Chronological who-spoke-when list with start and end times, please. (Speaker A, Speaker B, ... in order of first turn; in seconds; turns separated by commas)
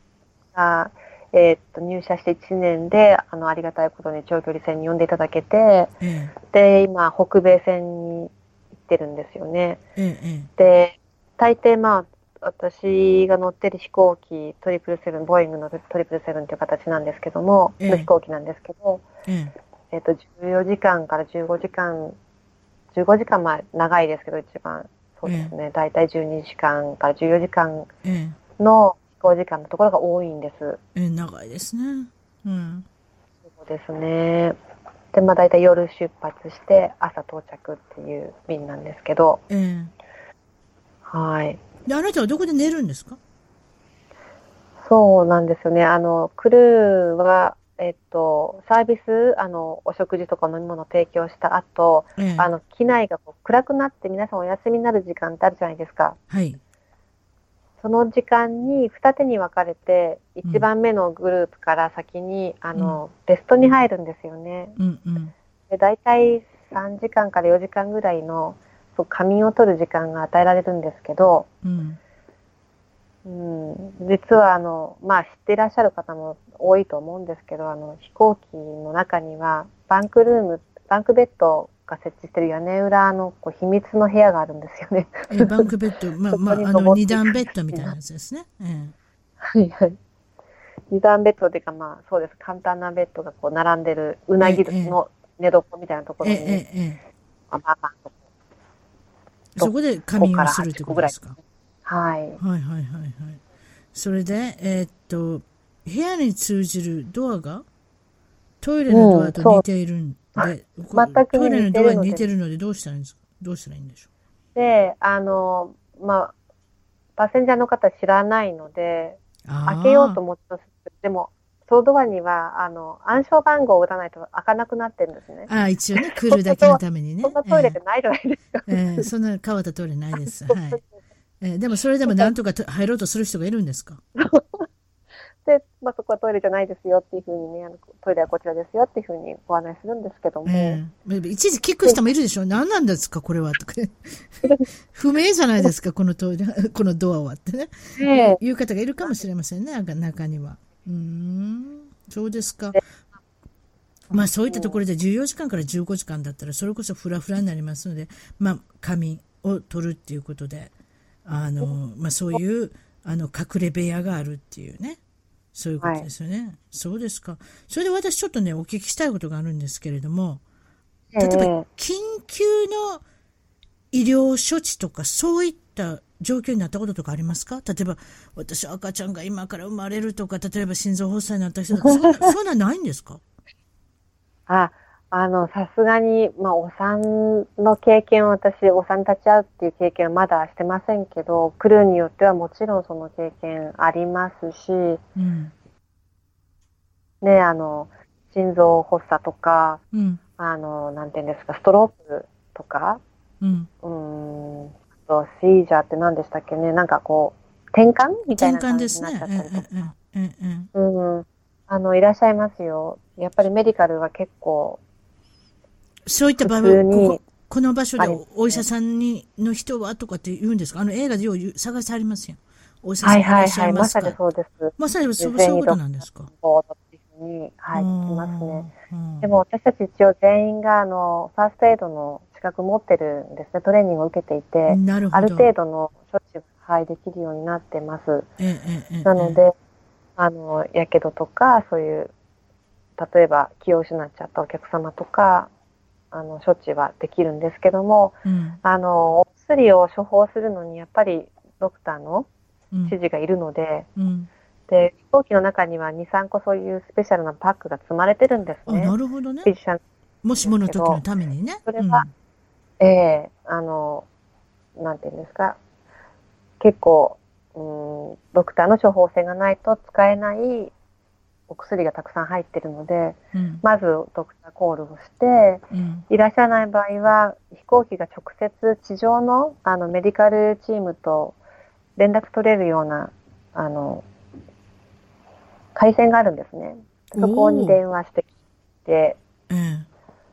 Speaker A: 0.5-5.9, Speaker B: 6.0-6.3, Speaker A: 6.5-9.8, Speaker B: 10.0-10.5, Speaker A: 10.6-19.0, Speaker B: 17.8-18.1, Speaker B: 19.2-19.5, Speaker A: 19.9-22.2, Speaker A: 22.9-27.9, Speaker B: 25.2-25.5, Speaker B: 28.0-28.4, Speaker A: 28.6-30.8, Speaker B: 30.9-32.8, Speaker A: 33.5-34.5, Speaker A: 35.1-39.4, Speaker B: 39.5-39.9, Speaker A: 41.0-41.6, Speaker B: 41.9-43.2, Speaker A: 44.8-56.2, Speaker B: 52.2-52.5, Speaker B: 56.3-56.6, Speaker A: 57.8-64.8, Speaker B: 64.8-65.3, Speaker A: 65.7-71.5, Speaker B: 71.6-72.0, Speaker A: 73.2-85.7, Speaker B: 85.3-88.9, Speaker A: 86.3-87.9, Speaker A: 89.4-90.0, Speaker A: 90.9-96.6, Speaker B: 94.4-95.0, Speaker B: 96.2-97.0, Speaker A: 97.5-98.1, Speaker B: 99.5-101.4, Speaker A: 99.6-101.3, Speaker A: 101.8-102.4, Speaker B: 102.4-103.4, Speaker B: 103.9-107.6, Speaker B: 108.6-114.1, Speaker A: 108.9-109.6, Speaker A: 110.4-112.2, Speaker A: 114.5-116.3, Speaker A: 117.2-129.1, Speaker B: 119.5-120.2, Speaker B: 125.5-127.8, Speaker B: 128.7-130.8, Speaker A: 130.5-130.8, Speaker B: 131.4-134.0, Speaker A: 132.1-132.3, Speaker A: 134.2-134.7, Speaker A: 135.4-140.8, Speaker B: 140.4-152.8, Speaker A: 148.0-148.4, Speaker B: 154.1-160.7, Speaker A: 154.5-154.8, Speaker B: 161.2-165.0, Speaker B: 165.5-170.4, Speaker A: 165.8-166.1, Speaker A: 171.1-171.7, Speaker B: 171.2-173.0, Speaker B: 173.9-183.2, Speaker A: 181.8-182.3, Speaker A: 184.5-195.0, Speaker B: 195.2-195.5, Speaker A: 197.2-199.8, Speaker B: 199.9-200.2, Speaker A: 200.4-203.0, Speaker B: 203.4-203.7, Speaker A: 203.8-209.9, Speaker B: 208.3-210.7, Speaker A: 210.7-214.8, Speaker B: 216.1-224.2, Speaker A: 216.4-217.2, Speaker A: 218.0-218.6, Speaker A: 223.0-228.7, Speaker B: 224.8-226.3, Speaker B: 227.7-229.3, Speaker A: 229.2-238.3, Speaker B: 234.7-235.5, Speaker B: 238.4-239.4, Speaker A: 239.0-239.5, Speaker A: 240.2-242.1, Speaker A: 243.0-245.5, Speaker A: 246.1-252.3, Speaker B: 248.2-248.6, Speaker A: 252.9-253.9, Speaker B: 254.0-254.3, Speaker A: 254.7-259.8, Speaker B: 258.7-259.5, Speaker B: 260.2-262.1, Speaker A: 260.4-261.0, Speaker A: 261.7-262.0, Speaker A: 262.8-264.1, Speaker A: 264.8-265.6, Speaker A: 266.6-270.7, Speaker A: 271.5-281.4, Speaker B: 273.3-273.6, Speaker B: 275.7-276.0, Speaker A: 282.0-284.0, Speaker A: 285.7-288.3, Speaker B: 287.1-287.8, Speaker A: 288.8-289.2, Speaker B: 289.5-289.9